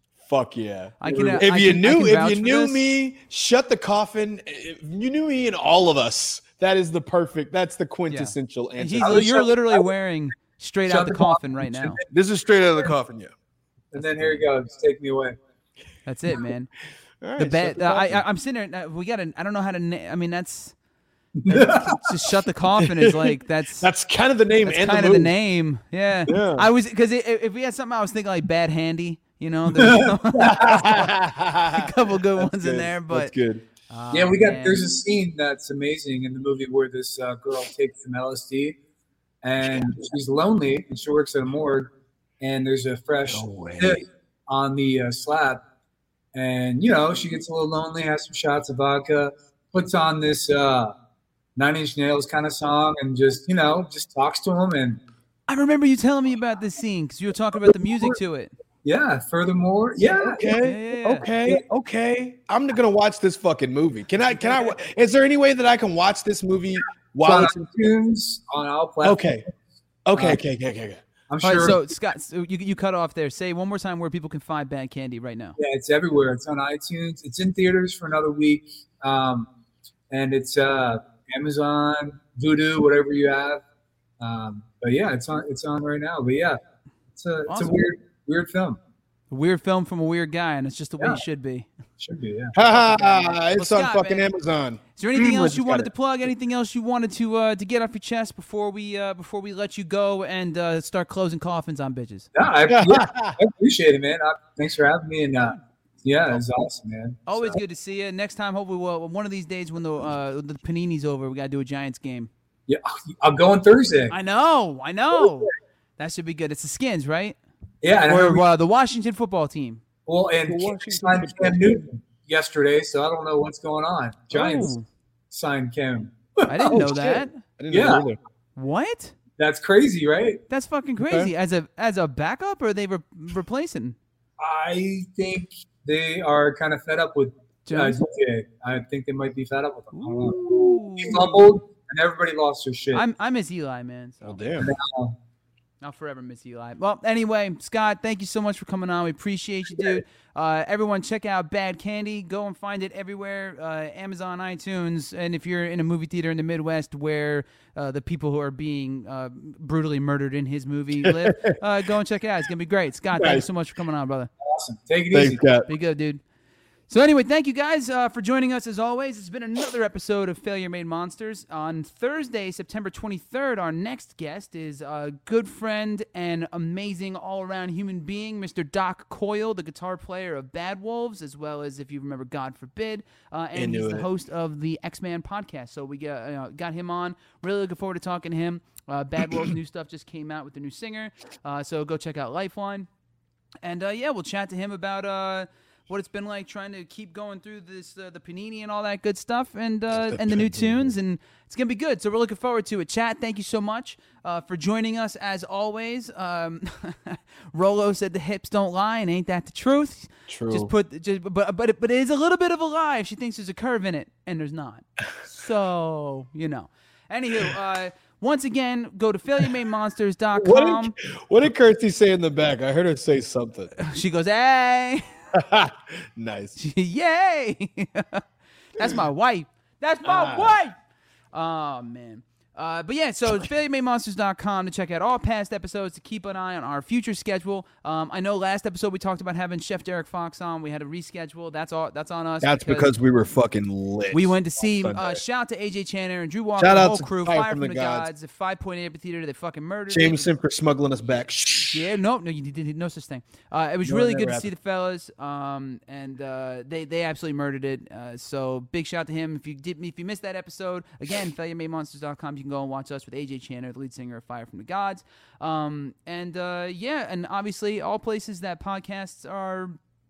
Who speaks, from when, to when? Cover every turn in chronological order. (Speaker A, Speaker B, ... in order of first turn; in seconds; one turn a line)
Speaker A: 0.2-9.4
Speaker B: 1.0-2.9
Speaker C: 1.1-1.4
Speaker B: 8.1-12.0
Speaker C: 9.0-9.8
Speaker C: 10.9-12.0
Speaker A: 12.1-13.3
Speaker C: 13.9-15.4
Speaker B: 14.0-14.4
Speaker B: 16.1-16.7
Speaker A: 17.2-18.2
Speaker B: 17.4-20.8
Speaker C: 21.4-22.0
Speaker B: 21.5-23.9
Speaker A: 22.8-25.3
Speaker B: 24.6-31.1
Speaker A: 26.3-26.7
Speaker C: 29.8-30.6
Speaker A: 30.3-33.6
Speaker B: 31.7-33.3
Speaker B: 33.9-34.8
Speaker C: 34.1-38.8
Speaker C: 39.4-45.6
Speaker A: 39.6-39.9
Speaker A: 43.3-44.0
Speaker C: 46.3-50.9
Speaker C: 51.6-55.0
Speaker B: 55.5-58.5
Speaker A: 57.6-58.2
Speaker C: 58.9-60.4
Speaker A: 60.2-67.6
Speaker B: 60.4-61.3
Speaker C: 67.2-69.4
Speaker A: 69.0-69.5
Speaker A: 70.1-71.0
Speaker C: 71.3-71.8
Speaker B: 71.4-75.6
Speaker C: 75.6-79.5
Speaker C: 80.1-83.6
Speaker C: 84.2-86.6
Speaker C: 87.2-88.8
Speaker B: 87.5-87.8
Speaker B: 89.3-91.7
Speaker C: 92.0-92.5
Speaker A: 92.5-95.9
Speaker B: 92.6-94.3
Speaker B: 95.0-102.3
Speaker C: 102.3-107.3
Speaker A: 102.4-103.4
Speaker B: 107.3-112.3
Speaker C: 112.7-114.1
Speaker B: 114.1-117.4
Speaker C: 117.8-118.5
Speaker B: 118.1-119.8
Speaker C: 120.1-124.7
Speaker A: 120.5-121.8
Speaker B: 124.3-124.8
Speaker C: 125.3-126.8
Speaker B: 126.5-127.4
Speaker A: 126.7-128.2
Speaker C: 127.7-128.0
Speaker B: 128.6-129.2
Speaker C: 129.4-130.4
Speaker B: 130.5-134.0
Speaker A: 131.0-131.3
Speaker C: 134.4-140.4
Speaker B: 137.7-138.0
Speaker B: 139.9-141.5
Speaker A: 140.2-140.8
Speaker C: 141.0-143.0
Speaker B: 142.9-144.4
Speaker A: 144.2-144.7
Speaker C: 144.6-145.2
Speaker B: 145.8-164.3
Speaker A: 161.0-161.6
Speaker A: 163.1-163.5
Speaker C: 164.4-165.4
Speaker A: 165.1-165.7
Speaker B: 165.7-166.2
Speaker B: 166.9-192.9
Speaker A: 183.6-184.1
Speaker B: 193.6-220.9
Speaker A: 199.9-200.9
Speaker A: 210.3-210.7
Speaker A: 220.4-223.7
Speaker B: 223.8-225.0
Speaker A: 225.3-226.6
Speaker B: 226.6-228.2
Speaker B: 228.8-230.8
Speaker A: 230.1-230.6
Speaker B: 231.3-242.9
Speaker A: 242.4-245.2
Speaker B: 244.1-250.3
Speaker A: 246.6-248.1
Speaker A: 249.9-251.9
Speaker B: 251.7-269.8
Speaker A: 253.8-254.5